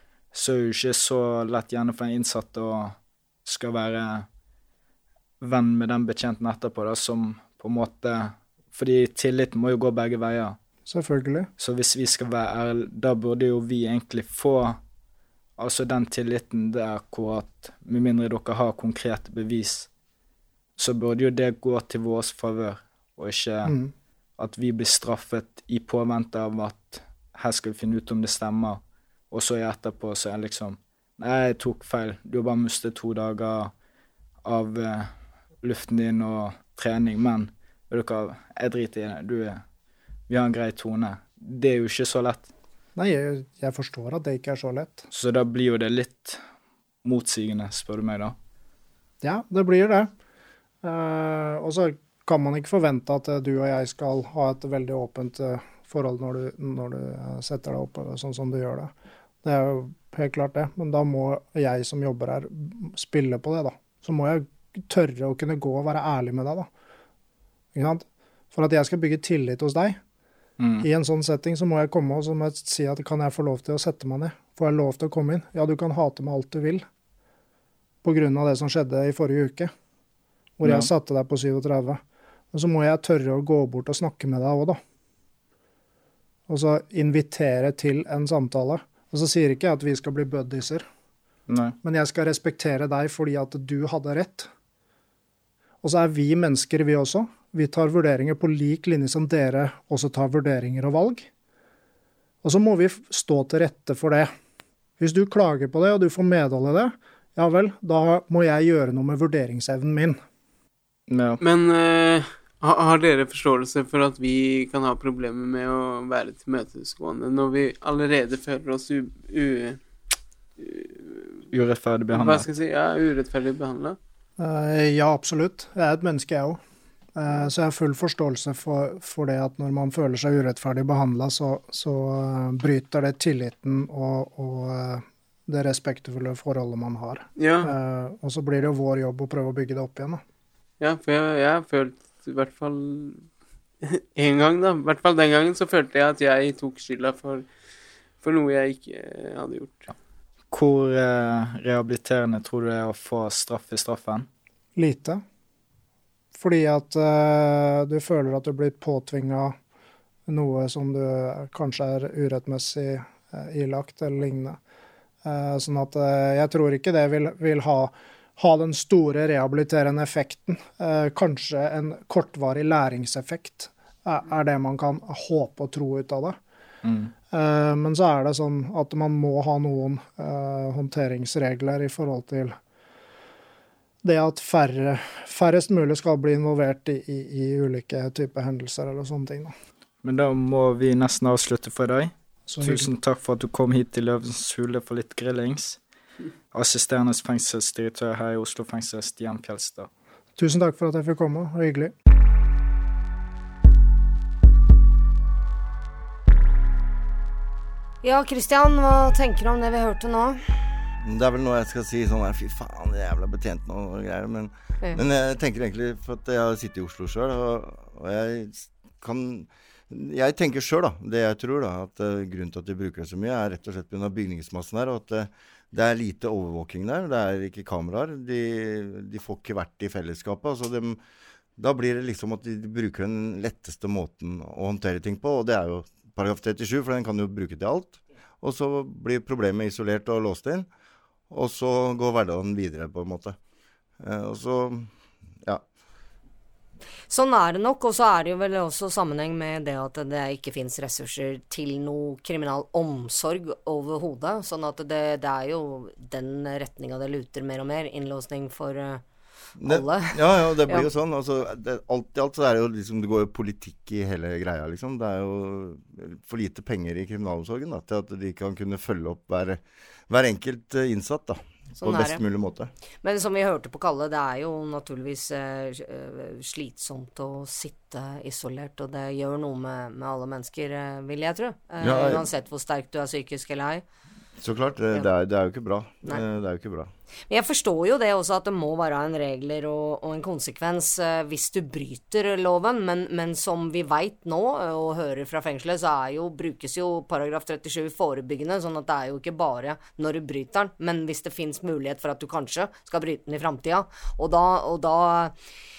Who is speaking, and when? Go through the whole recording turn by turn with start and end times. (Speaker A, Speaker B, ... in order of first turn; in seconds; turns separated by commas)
Speaker A: 0.3-4.3, Speaker A: 5.4-10.6, Speaker B: 10.9-11.5, Speaker A: 11.6-14.8, Speaker A: 15.6-19.9, Speaker A: 20.8-23.7, Speaker B: 23.6-23.9, Speaker A: 24.4-28.8, Speaker A: 29.3-33.7, Speaker A: 34.4-35.1, Speaker A: 35.6-39.6, Speaker A: 40.3-42.5, Speaker B: 43.0-45.1, Speaker A: 45.1-46.4, Speaker A: 47.0-48.4, Speaker B: 49.2-50.1, Speaker B: 50.8-58.9, Speaker B: 59.4-66.7, Speaker B: 67.8-70.0, Speaker A: 70.6-70.8, Speaker B: 70.8-76.8, Speaker B: 78.0-79.7, Speaker B: 80.6-82.0, Speaker B: 82.5-84.8, Speaker B: 86.5-90.8, Speaker A: 91.5-91.8, Speaker B: 91.8-94.5, Speaker B: 95.8-101.3, Speaker B: 102.4-104.3, Speaker B: 105.0-110.2, Speaker A: 111.1-111.4, Speaker C: 111.4-119.8, Speaker C: 120.6-121.4, Speaker A: 121.5-122.5, Speaker C: 122.1-124.0, Speaker B: 124.4-126.6, Speaker B: 127.2-140.2, Speaker C: 137.4-137.7, Speaker C: 140.8-143.3, Speaker C: 143.8-147.5, Speaker C: 148.2-149.9, Speaker A: 150.5-154.3, Speaker B: 154.8-155.2, Speaker B: 156.3-159.6, Speaker B: 160.3-164.6, Speaker B: 165.2-176.4, Speaker A: 176.8-177.1, Speaker B: 177.3-182.6, Speaker B: 184.0-189.5, Speaker A: 190.0-195.8, Speaker B: 192.5-192.9, Speaker A: 196.5-199.9, Speaker B: 200.4-201.9, Speaker D: 208.0-210.4, Speaker E: 211.0-231.0, Speaker E: 231.6-240.7, Speaker E: 241.3-243.4, Speaker E: 244.0-244.9, Speaker D: 247.1-259.0, Speaker E: 259.6-272.7, Speaker D: 259.6-260.9, Speaker D: 271.8-272.2, Speaker D: 273.0-283.8, Speaker E: 281.8-282.2, Speaker E: 284.4-286.9, Speaker D: 287.3-305.3